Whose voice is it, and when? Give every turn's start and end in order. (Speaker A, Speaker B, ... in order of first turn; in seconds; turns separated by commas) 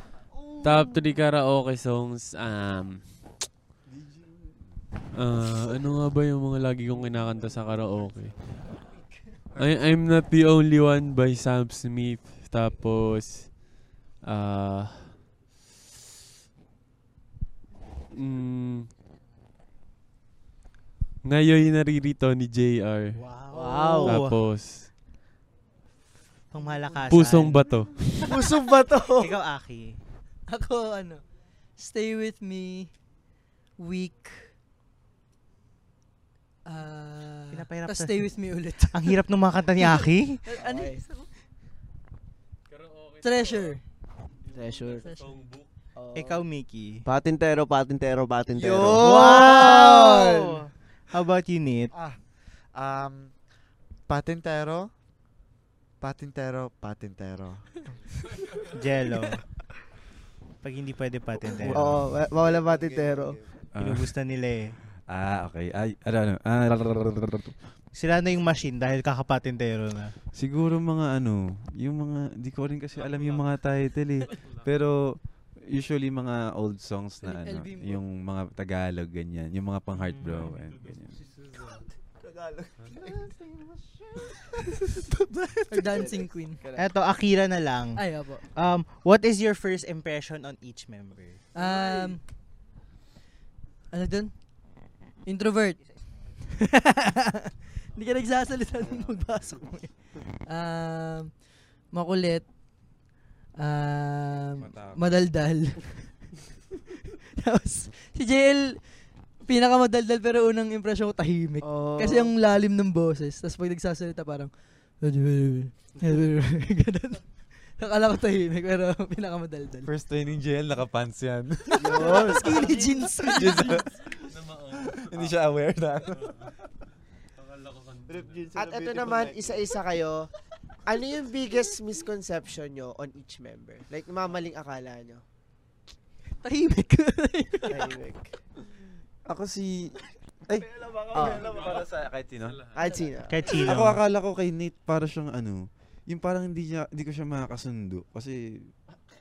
Speaker A: 0.6-3.0, Speaker A: 5.1-8.3, Speaker A: 9.6-13.6, Speaker A: 14.2-15.2, Speaker A: 18.1-18.9, Speaker A: 21.2-23.1, Speaker B: 23.1-24.4, Speaker C: 23.5-24.1, Speaker A: 24.0-24.9, Speaker B: 26.5-27.6, Speaker A: 27.1-28.1, Speaker C: 28.2-29.4, Speaker B: 29.1-30.0, Speaker D: 30.5-31.2, Speaker D: 31.8-32.9, Speaker D: 33.8-34.5, Speaker D: 36.6-39.2, Speaker B: 37.5-38.2, Speaker B: 38.9-40.4, Speaker D: 39.8-41.3, Speaker C: 40.6-41.0, Speaker A: 42.7-43.8, Speaker D: 43.2-43.8, Speaker A: 44.4-45.7, Speaker C: 44.5-45.0, Speaker D: 45.0-45.3, Speaker C: 46.0-46.4, Speaker B: 46.1-47.0, Speaker E: 47.0-49.1, Speaker C: 48.5-50.6, Speaker B: 48.9-51.9, Speaker F: 51.9-52.2, Speaker F: 52.7-53.3, Speaker F: 54.1-54.9, Speaker F: 56.0-57.6, Speaker B: 58.6-59.4, Speaker B: 60.6-62.0, Speaker G: 61.6-62.0, Speaker C: 61.6-63.4, Speaker E: 62.7-63.4, Speaker G: 63.7-64.1, Speaker B: 63.8-64.7, Speaker G: 65.1-67.5, Speaker B: 67.9-70.1, Speaker G: 70.3-81.2, Speaker A: 72.9-73.5, Speaker A: 74.3-74.6, Speaker D: 77.2-78.0, Speaker B: 80.0-80.5, Speaker A: 80.5-81.8, Speaker C: 82.2-82.7, Speaker F: 83.0-83.7, Speaker D: 85.1-86.6, Speaker C: 85.7-86.9, Speaker B: 86.7-88.0, Speaker D: 88.0-88.4, Speaker B: 88.5-91.4, Speaker D: 91.5-92.2, Speaker D: 93.9-94.3, Speaker D: 95.2-95.8, Speaker B: 95.8-96.2, Speaker D: 96.6-101.3, Speaker D: 101.9-102.5, Speaker D: 103.6-106.2, Speaker G: 104.6-105.2, Speaker D: 107.4-108.8, Speaker D: 109.5-117.2, Speaker C: 111.6-112.3, Speaker D: 117.8-119.9, Speaker G: 119.8-122.4, Speaker C: 121.8-122.8, Speaker D: 121.9-123.8, Speaker G: 123.2-123.9, Speaker A: 124.0-125.3, Speaker G: 124.9-126.5, Speaker A: 126.1-126.5, Speaker A: 127.4-128.5, Speaker G: 128.2-129.5, Speaker C: 128.5-130.3, Speaker C: 130.8-135.2, Speaker D: 136.4-137.9, Speaker C: 137.7-138.3, Speaker G: 139.2-139.9, Speaker G: 140.5-142.7, Speaker C: 141.1-141.6, Speaker A: 141.3-142.9, Speaker C: 142.7-143.6, Speaker B: 143.3-144.0, Speaker G: 143.5-148.7